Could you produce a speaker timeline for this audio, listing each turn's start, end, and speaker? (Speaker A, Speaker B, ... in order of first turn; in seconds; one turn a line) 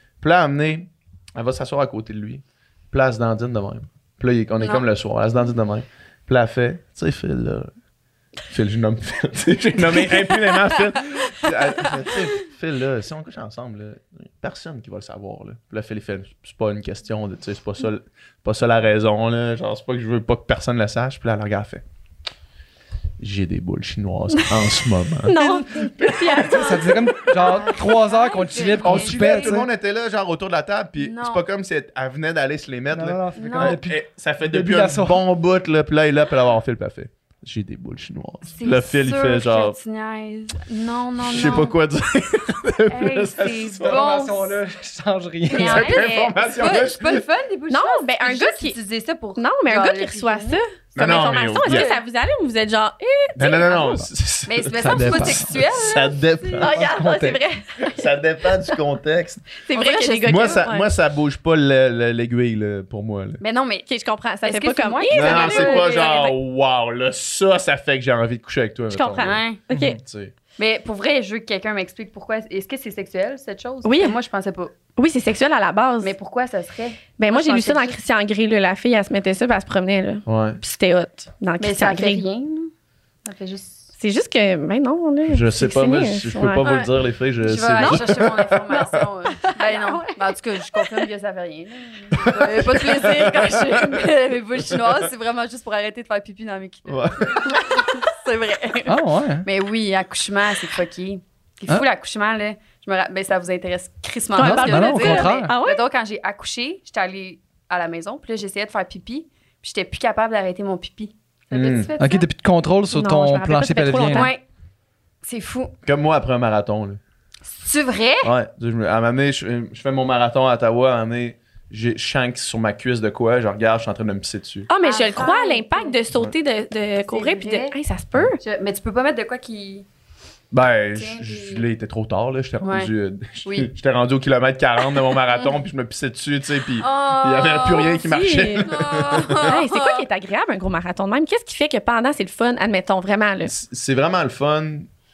Speaker A: 0.2-7.7
Speaker A: 8.5-21.8
Speaker A: 23.2-26.5
Speaker B: 25.2-26.9
Speaker C: 26.5-29.7
Speaker D: 27.3-29.6
Speaker A: 28.8-39.8
Speaker D: 31.0-31.4
Speaker C: 32.9-35.2
Speaker D: 33.4-33.8
Speaker D: 38.5-41.8
Speaker A: 41.2-44.0
Speaker D: 42.9-44.6
Speaker C: 43.8-46.0
Speaker D: 45.5-52.0
Speaker A: 45.5-47.3
Speaker B: 45.8-46.3
Speaker B: 47.7-48.8
Speaker B: 49.4-54.0
Speaker A: 51.0-51.9
Speaker A: 53.4-56.7
Speaker D: 54.5-56.7
Speaker C: 54.8-55.6
Speaker B: 56.6-58.0
Speaker C: 56.6-57.4
Speaker A: 57.8-59.5
Speaker B: 59.7-60.9
Speaker D: 59.7-60.7
Speaker A: 60.2-63.4
Speaker D: 63.4-63.9
Speaker B: 63.9-66.3
Speaker D: 64.4-66.3
Speaker A: 65.1-70.3
Speaker B: 68.9-70.0
Speaker D: 69.2-69.6
Speaker D: 70.6-74.7
Speaker B: 73.8-74.2
Speaker B: 75.0-76.1
Speaker D: 76.0-78.0
Speaker B: 77.2-82.3
Speaker A: 80.3-80.6
Speaker D: 81.6-82.7
Speaker D: 83.2-83.9
Speaker B: 84.0-86.9
Speaker A: 85.3-89.0
Speaker D: 87.4-112.3
Speaker B: 87.7-91.1
Speaker A: 92.2-94.1
Speaker A: 94.7-95.0
Speaker A: 96.9-97.6
Speaker C: 98.8-99.5
Speaker B: 104.3-105.8
Speaker C: 104.4-105.5
Speaker A: 111.5-111.9
Speaker C: 112.0-114.3
Speaker B: 112.9-114.3
Speaker D: 114.1-114.4
Speaker D: 115.2-115.7
Speaker A: 115.8-117.0
Speaker D: 117.5-118.3
Speaker A: 118.2-124.7
Speaker B: 124.7-128.4
Speaker D: 124.8-126.0
Speaker D: 127.0-127.8
Speaker D: 128.4-129.9
Speaker A: 130.5-139.5
Speaker D: 130.9-131.6
Speaker D: 132.6-132.9
Speaker D: 133.4-133.7
Speaker D: 136.8-138.0
Speaker B: 137.9-138.7
Speaker D: 138.6-140.1
Speaker B: 139.3-143.5
Speaker A: 143.4-144.9